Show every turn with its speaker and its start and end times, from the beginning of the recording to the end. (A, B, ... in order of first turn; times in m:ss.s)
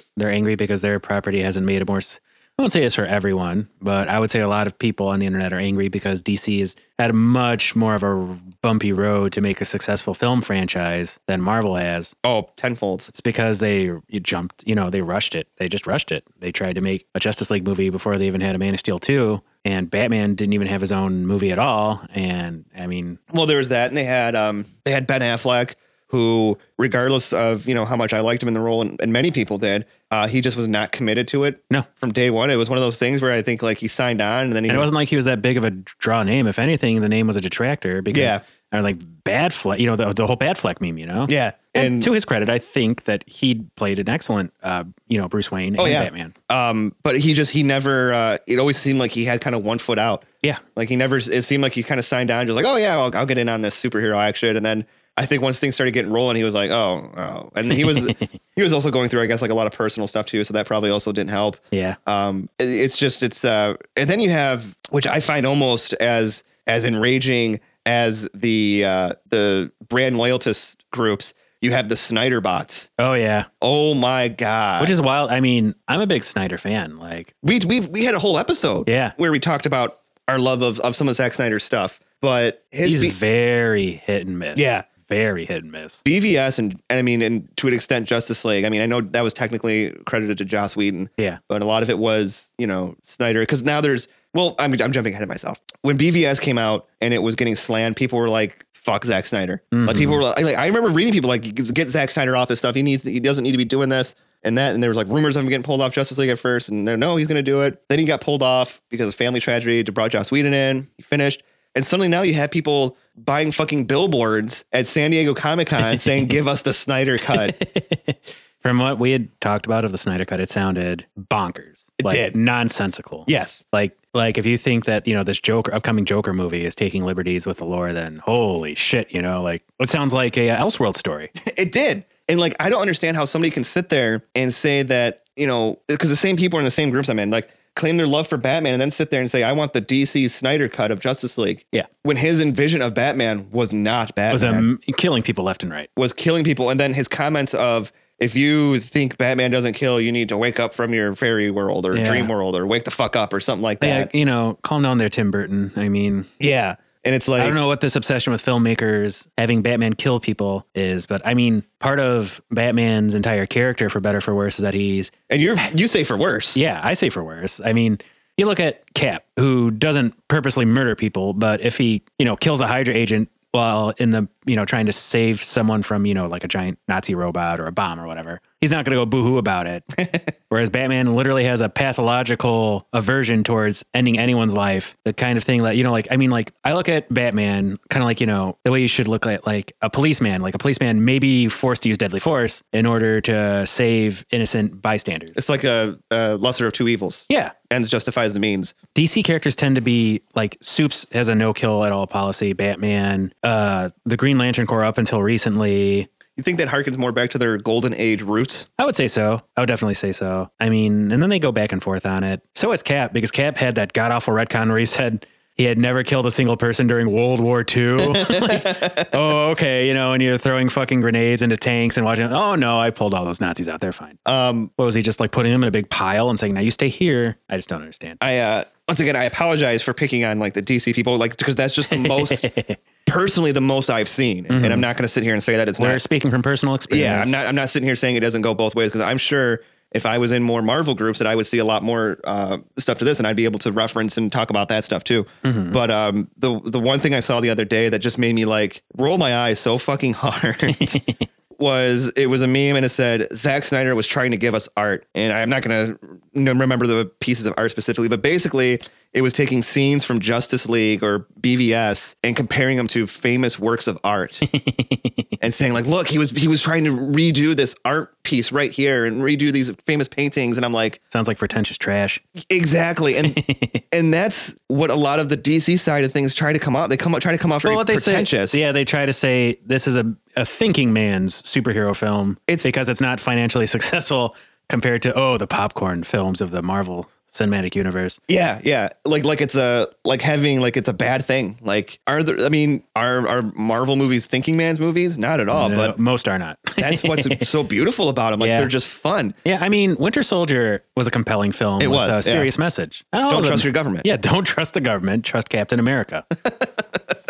0:00.2-0:12.1 A
0:12.2-0:13.1 B
0:13.1-0:23.2 A
0:23.3-0:34.9 B
0:34.7-0:46.3 A
0:38.1-0:38.4 B
0:41.3-0:42.1 B
0:45.8-1:12.9 B
0:57.7-0:58.3 A
1:01.7-1:02.0 A
1:13.0-1:13.5 A
1:13.6-1:15.0 B
1:14.8-1:17.3 A
1:17.4-1:23.2 B
1:18.9-1:19.1 A
1:22.8-1:26.0 A
1:24.6-1:24.9 B
1:26.1-1:57.6 B
1:39.7-1:40.2 A
1:55.8-1:56.2 A
1:57.3-2:11.3 A
2:02.0-2:02.4 B
2:03.3-2:03.6 B
2:11.4-2:24.7 B
2:24.3-2:25.9 A
2:26.0-2:34.1 B
2:31.9-2:32.3 A
2:33.8-2:36.3 A
2:36.4-2:37.6 B
2:37.4-2:45.1 A
2:45.3-2:46.6 B
2:46.6-2:59.9 A
3:00.5-3:15.4 A
3:15.4-3:18.8 B
3:17.3-3:17.5 A
3:19.0-3:26.1 A
3:26.4-3:28.7 B
3:28.8-3:44.2 A
3:38.0-3:39.1 B
3:44.3-3:44.7 B
3:44.8-3:48.2 A
3:48.2-3:52.4 B
3:51.9-3:52.8 A
3:53.1-3:56.0 B
3:54.5-3:54.9 A
3:55.8-3:57.4 A
3:56.9-4:11.0 B
4:05.4-4:05.8 A
4:10.7-4:11.2 A
4:11.6-4:24.4 B
4:24.5-4:25.3 A
4:25.4-4:31.0 B
4:31.1-4:32.2 A
4:32.4-4:33.4 B
4:33.2-4:33.8 A
4:33.9-4:38.6 B
4:37.6-4:48.2 A
4:48.3-4:56.0 B
4:55.5-4:57.5 A
4:56.8-4:59.4 B
4:58.4-4:58.7 A
4:59.4-5:06.3 A
5:01.8-5:02.5 B
5:03.3-5:04.1 B
5:06.4-5:07.2 B